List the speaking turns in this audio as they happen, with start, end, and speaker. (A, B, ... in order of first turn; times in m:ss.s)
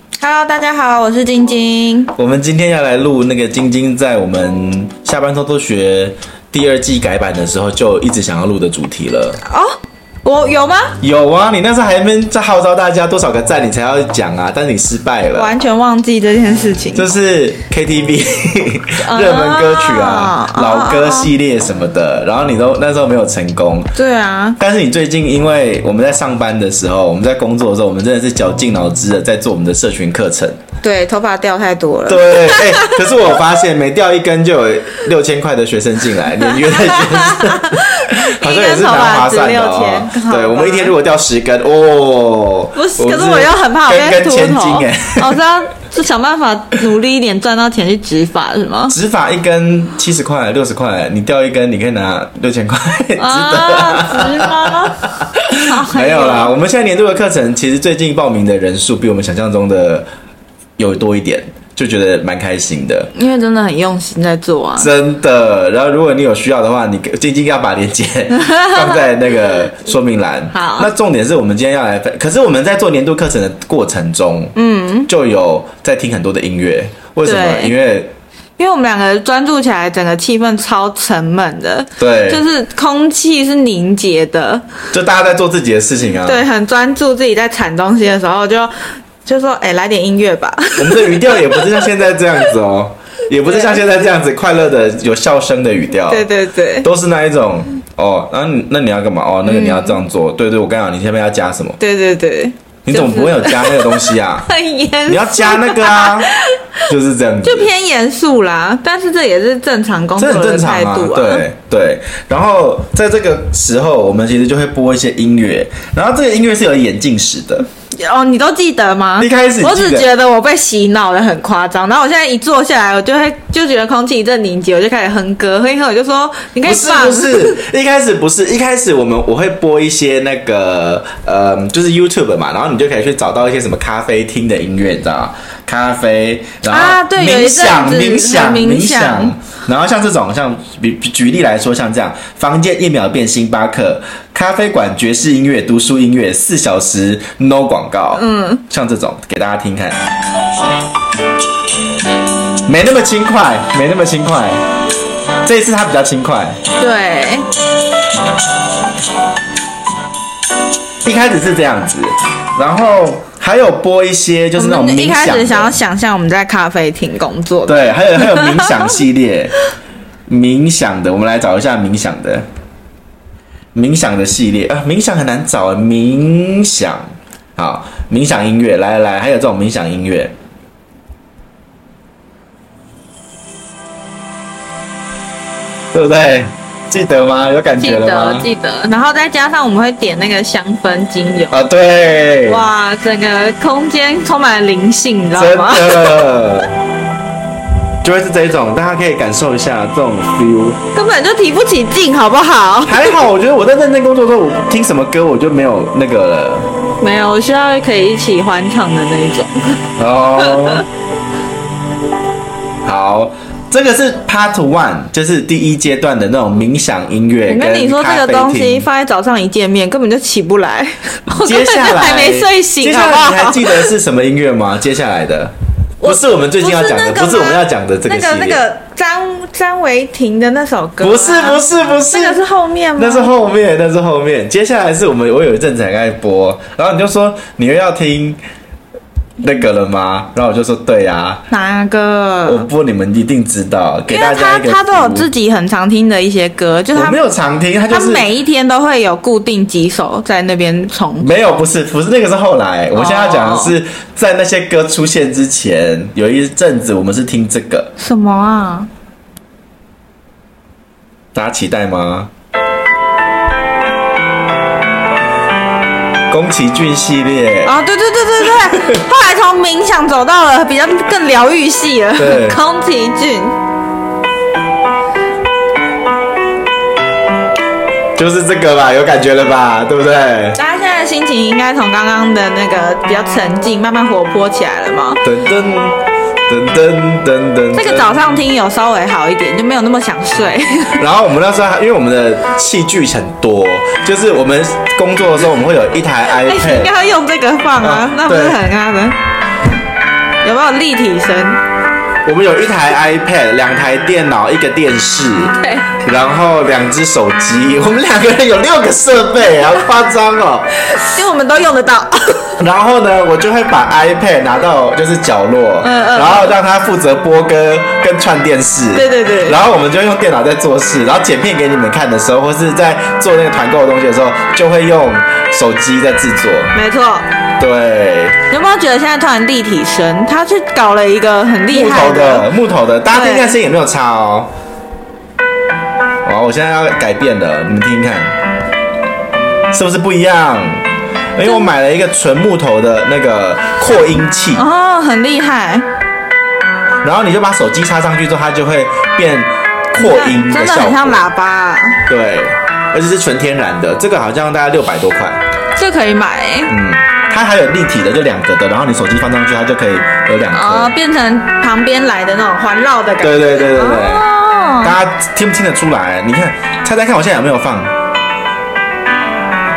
0:00.2-0:02.1 A
0:02.2-0:09.4 B
0:09.4-0:11.0 A
0:11.0-0:15.5 B
0:15.3-0:17.1 A
0:16.9-0:23.9 B
0:19.0-0:21.3 A
0:23.9-0:24.6 A
0:24.6-0:30.6 B
0:30.8-0:33.0 A
0:32.1-0:45.4 B
0:36.5-0:40.9 A
0:42.7-0:49.0 A
0:48.9-1:00.1 B
0:53.2-0:56.6 A
1:00.8-1:03.1 B
1:03.1-1:04.9 A
1:04.8-1:14.5 B
1:08.3-1:09.1 A
1:10.5-1:10.9 A
1:14.5-1:15.1 A
1:15.1-1:18.1 B
1:17.2-1:17.7 A
1:18.6-1:24.6 A
1:22.0-1:22.4 B
1:24.9-1:26.4 B
1:26.2-1:31.8 A
1:30.8-1:36.2 B
1:33.4-1:33.8 A
1:36.1-1:36.9 A
1:36.8-1:41.8 B
1:39.4-1:40.0 A
1:41.8-1:46.6 A
1:42.8-1:44.5 B
1:45.0-1:46.3 B
1:46.9-1:47.7 B
1:47.4-1:51.4 A
1:50.2-1:57.7 B
1:57.9-2:07.6 A
1:59.2-2:00.1 B
2:06.6-2:30.0 B
2:16.6-2:19.3 A
2:28.1-2:28.6 A
2:32.6-2:34.6 B
2:35.4-2:36.6 B
2:36.8-2:37.4 A
2:41.0-2:45.8 B
2:44.6-2:48.8 A
2:47.7-2:49.6 B
2:50.3-2:52.4 B
2:53.7-3:00.3 B
3:05.9-3:08.5 B
3:07.8-3:11.6 A
3:11.5-3:12.7 B
3:12.4-3:16.3 A
3:15.4-3:16.7 B
3:18.0-3:20.8 B
3:20.9-3:23.2 A
3:22.8-3:26.7 B
3:27.0-3:29.8 A
3:30.0-3:30.8 B
3:30.4-3:30.8 A
3:32.8-3:38.9 B
3:37.4-3:43.9 A
3:41.4-3:48.6 B
3:46.0-3:53.3 A
3:51.0-3:52.4 B
3:53.0-3:58.4 B
3:59.4-4:01.4 B
4:01.5-4:02.7 A
4:02.4-4:05.3 B
4:04.1-4:07.2 A
4:06.9-4:08.3 B
4:07.9-4:11.3 A
4:11.2-4:17.9 B
4:12.9-4:13.8 A
4:18.0-4:18.9 A
4:21.3-4:22.3 B
4:26.3-4:27.7 B
4:27.6-4:33.6 A
4:28.6-4:29.0 B
4:32.2-4:32.6 B
4:38.2-4:40.6 B
4:40.6-4:45.2 A
4:45.2-4:48.1 B
4:47.7-4:51.0 A
4:51.0-4:56.9 B
4:56.4-4:59.2 A
4:57.8-4:58.6 B
5:00.4-5:01.6 A
5:02.2-5:10.7 B
5:05.6-5:05.9 A
5:10.8-5:12.6 A
5:12.6-5:26.7 B
5:15.8-5:16.6 A
5:18.9-5:19.6 A
5:26.7-5:27.3 A
5:27.6-5:28.4 B
5:28.5-5:32.5 A
5:31.7-5:34.5 B
5:33.1-5:33.5 A
5:36.2-5:38.4 B
5:39.7-5:44.6 B
5:44.5-5:45.9 A
5:47.0-5:51.3 B
5:50.0-5:52.0 A
5:52.1-5:55.4 B
5:55.8-5:56.7 A
5:56.7-6:00.9 B
6:00.5-6:05.0 A
6:03.2-6:04.3 B
6:04.8-6:07.9 B